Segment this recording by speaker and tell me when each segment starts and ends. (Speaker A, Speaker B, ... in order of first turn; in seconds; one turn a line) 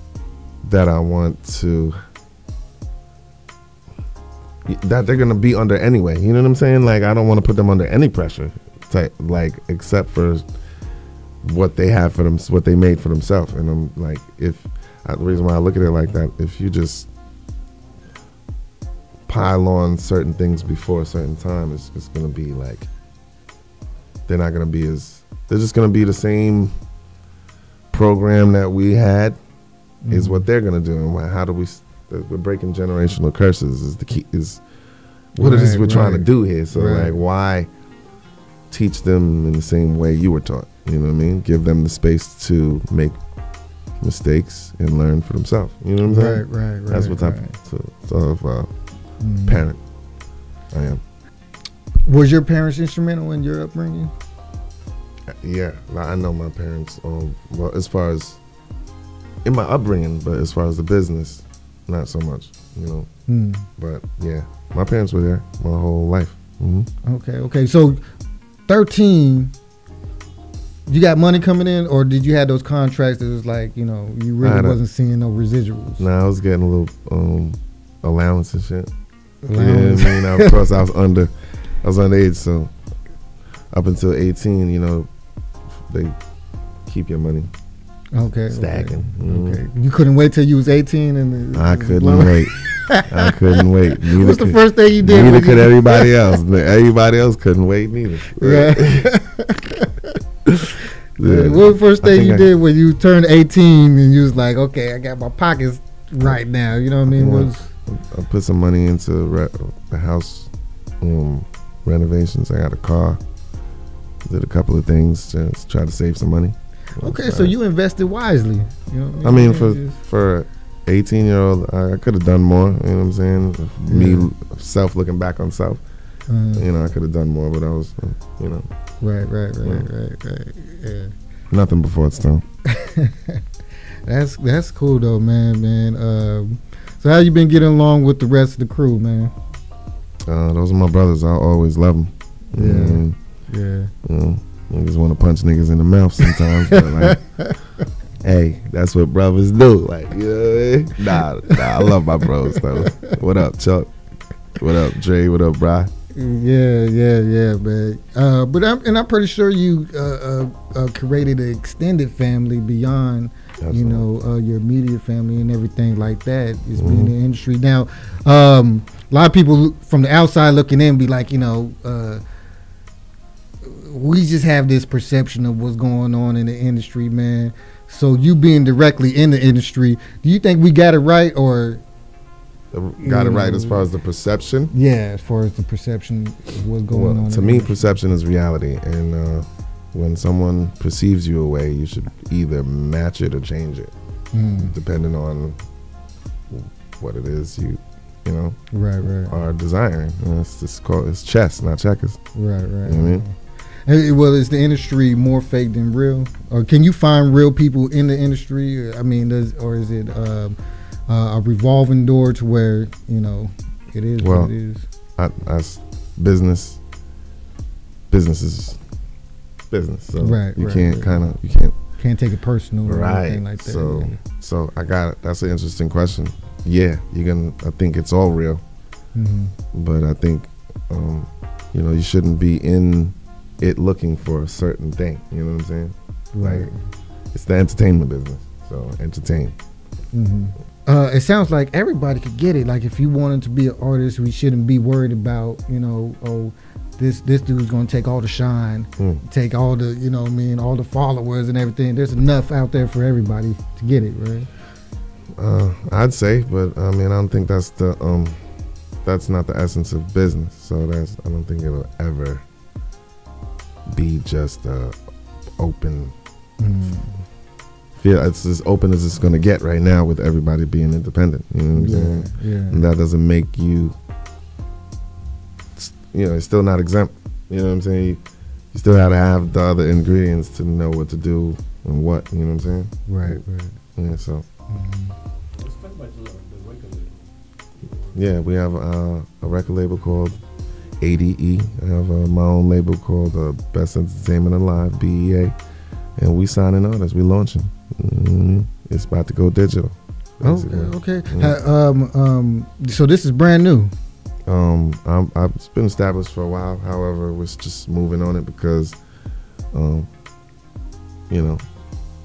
Speaker A: 0.6-2.0
Speaker A: 4.7-10.5
Speaker A: 11.4-17.1
Speaker A: 19.3-22.9
Speaker A: 24.3-26.8
Speaker A: 27.9-29.4
Speaker B: 30.0-30.4
Speaker A: 30.1-34.6
Speaker A: 35.4-37.7
Speaker B: 35.4-37.1
Speaker A: 38.7-43.2
Speaker A: 44.0-48.7
Speaker B: 46.0-47.6
Speaker B: 49.2-49.6
Speaker A: 49.5-49.8
Speaker A: 50.7-51.0
Speaker B: 52.1-54.1
Speaker A: 55.3-58.4
Speaker A: 59.4-63.1
Speaker B: 63.3-63.7
Speaker A: 63.8-66.9
Speaker B: 67.0-68.0
Speaker B: 68.7-69.5
Speaker B: 70.9-76.0
Speaker A: 74.4-74.8
Speaker A: 76.0-78.9
Speaker B: 79.4-80.6
Speaker A: 79.5-82.7
Speaker A: 83.7-85.1
Speaker A: 85.7-86.2
Speaker A: 86.9-87.5
Speaker B: 88.1-96.2
Speaker A: 88.5-89.6
Speaker A: 91.5-99.1
Speaker B: 98.4-100.2
Speaker A: 100.5-102.5
Speaker B: 101.2-107.7
Speaker A: 107.1-113.2
Speaker A: 114.2-117.5
Speaker B: 117.0-120.0
Speaker A: 119.2-125.8
Speaker B: 123.9-124.3
Speaker B: 126.3-126.7
Speaker A: 126.5-128.7
Speaker B: 129.0-131.1
Speaker A: 129.6-129.9
Speaker A: 131.5-132.4
Speaker B: 132.7-133.4
Speaker B: 134.1-139.3
Speaker A: 140.2-143.2
Speaker B: 142.6-143.9
Speaker A: 144.0-147.2
Speaker B: 146.2-147.6
Speaker A: 148.2-153.9
Speaker B: 152.8-153.1
Speaker A: 154.6-155.9
Speaker B: 156.2-172.2
Speaker A: 163.6-164.1
Speaker A: 166.8-167.1
Speaker B: 173.6-181.8
Speaker A: 182.7-184.7
Speaker B: 183.0-183.8
Speaker B: 184.7-187.8
Speaker A: 186.9-193.9
Speaker B: 194.3-194.7
Speaker A: 194.6-195.6
Speaker A: 196.5-198.6
Speaker B: 198.7-199.4
Speaker A: 199.2-202.2
Speaker B: 202.3-203.3
Speaker A: 202.8-203.2
Speaker B: 203.9-210.6
Speaker B: 211.1-214.9
Speaker A: 214.2-214.5
Speaker A: 215.2-216.8
Speaker A: 218.1-218.8
Speaker A: 219.7-221.8
Speaker B: 220.2-221.1
Speaker B: 222.0-224.2
Speaker A: 222.8-228.6
Speaker B: 229.2-229.5
Speaker A: 229.7-236.7
Speaker B: 236.3-236.8
Speaker A: 237.3-239.6
Speaker B: 240.1-254.5
Speaker A: 255.4-262.4
Speaker A: 263.9-265.0
Speaker A: 265.6-266.1
Speaker B: 266.6-267.2
Speaker A: 268.0-274.0
Speaker B: 271.7-272.8
Speaker A: 275.8-278.2
Speaker A: 278.7-283.4
Speaker B: 283.1-283.8
Speaker A: 284.0-284.4
Speaker B: 284.7-285.2
Speaker C: 285.6-288.2
Speaker A: 288.1-290.4
Speaker A: 291.0-295.6
Speaker A: 296.2-301.6
Speaker B: 300.4-303.9
Speaker A: 304.5-309.0
Speaker A: 309.7-310.1
Speaker A: 311.3-311.7